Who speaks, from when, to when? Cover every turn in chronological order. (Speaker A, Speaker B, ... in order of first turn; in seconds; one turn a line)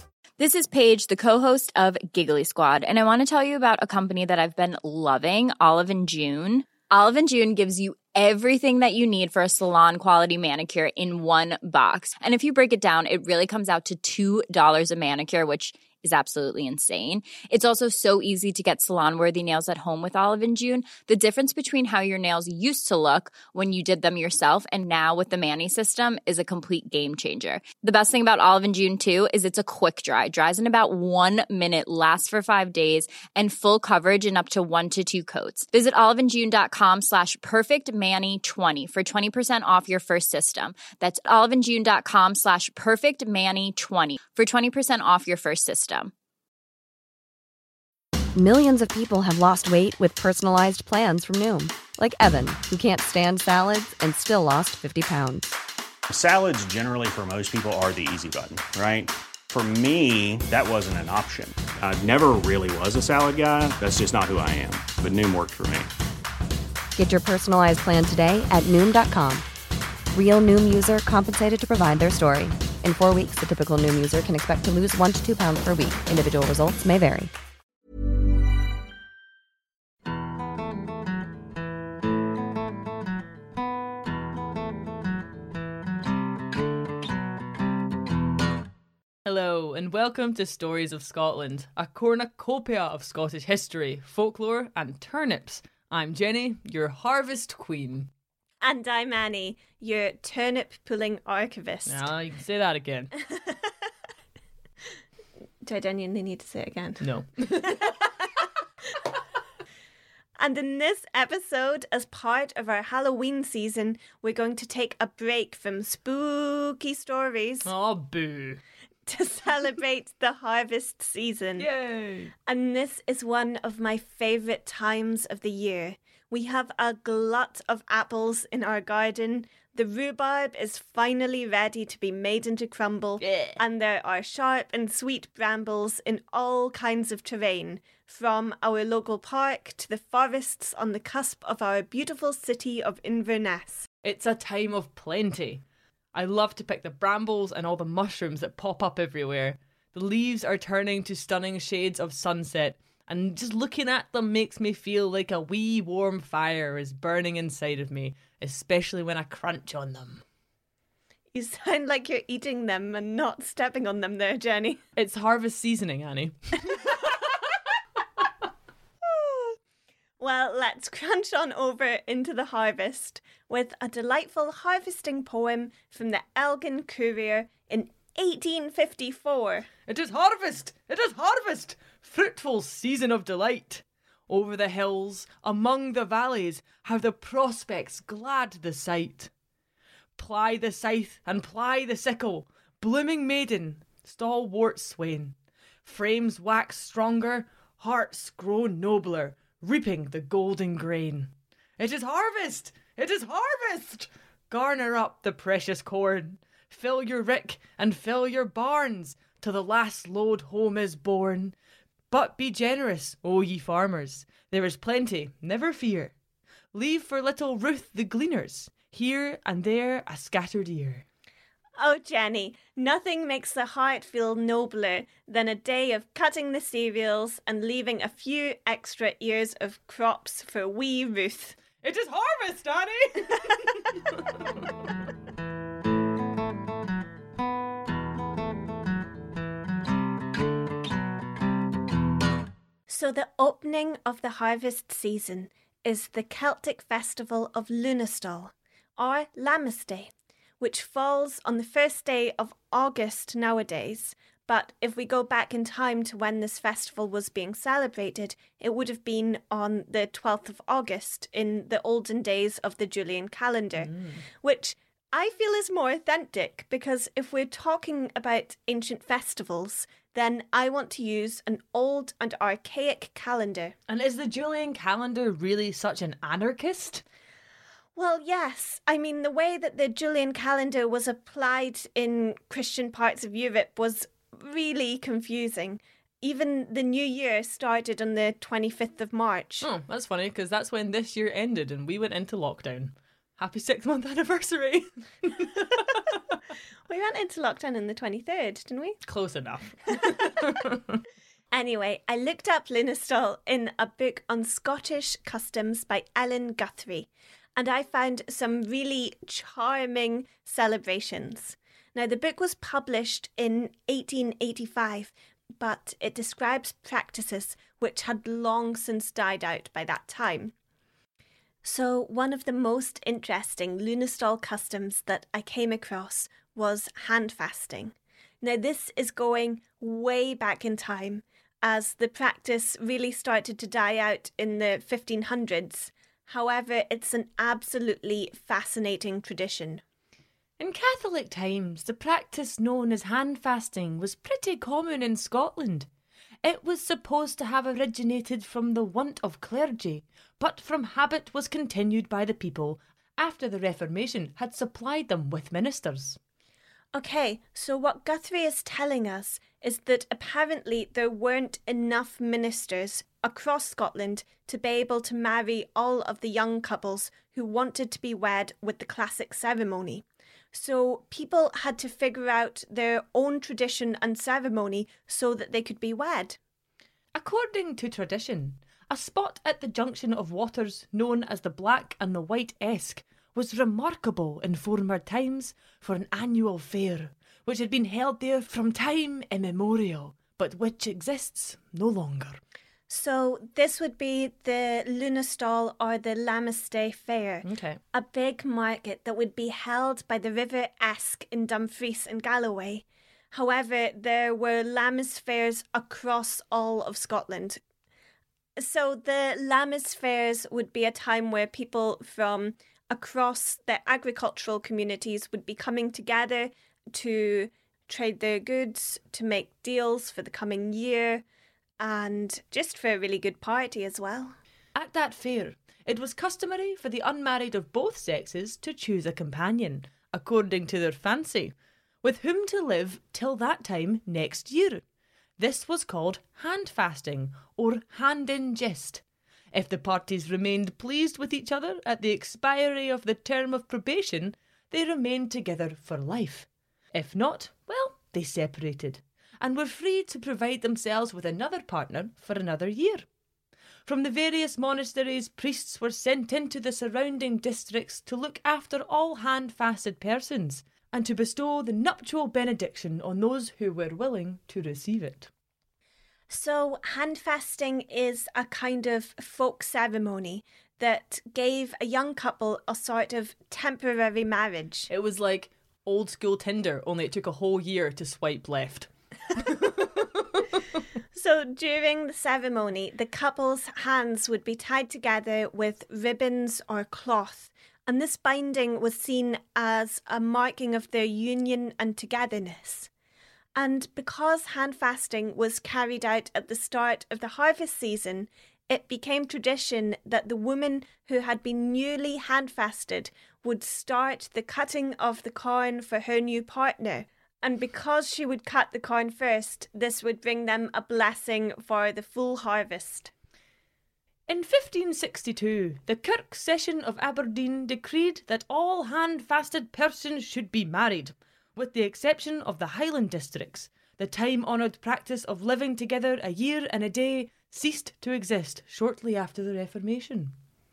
Speaker A: 0.4-46.1
Speaker B: 48.4-55.5
Speaker C: 56.1-65.9
Speaker B: 67.0-69.5
Speaker B: 70.1-77.3
Speaker D: 89.2-98.1
Speaker E: 98.6-102.1
Speaker D: 101.9-103.1
Speaker E: 105.6-107.1
Speaker D: 107.0-108.0
Speaker E: 107.6-107.9
Speaker E: 110.4-117.7
Speaker D: 117.7-118.6
Speaker E: 119.1-121.7
Speaker D: 121.6-122.3
Speaker E: 122.5-143.9
Speaker D: 133.2-133.6
Speaker D: 144.0-145.6
Speaker D: 146.1-160.2
Speaker E: 161.3-164.8
Speaker D: 165.0-167.1
Speaker E: 169.0-169.6
Speaker E: 170.2-179.7
Speaker D: 179.9-189.3
Speaker D: 190.2-211.6
Speaker D: 212.1-216.1
Speaker D: 216.7-221.1
Speaker E: 221.8-231.6
Speaker D: 231.8-234.6
Speaker E: 242.9-263.9
Speaker D: 263.8-264.2
Speaker E: 264.4-273.8
Speaker D: 273.9-277.0
Speaker E: 278.0-289.7
Speaker D: 289.6-296.2
Speaker E: 296.9-299.0
Speaker D: 299.1-300.8
Speaker E: 301.5-320.5
Speaker E: 321.6-339.8
Speaker D: 340.6-345.9
Speaker D: 346.4-356.2
Speaker E: 356.9-376.4
Speaker D: 377.1-392.4
Speaker E: 392.9-407.6
Speaker D: 397.4-397.8
Speaker E: 408.6-421.2
Speaker E: 421.8-424.4
Speaker D: 424.8-434.8
Speaker D: 435.4-453.1
Speaker D: 453.9-465.3
Speaker E: 466.3-474.9
Speaker D: 474.9-480.4
Speaker E: 481.1-492.9
Speaker E: 493.6-513.1
Speaker D: 514.3-530.3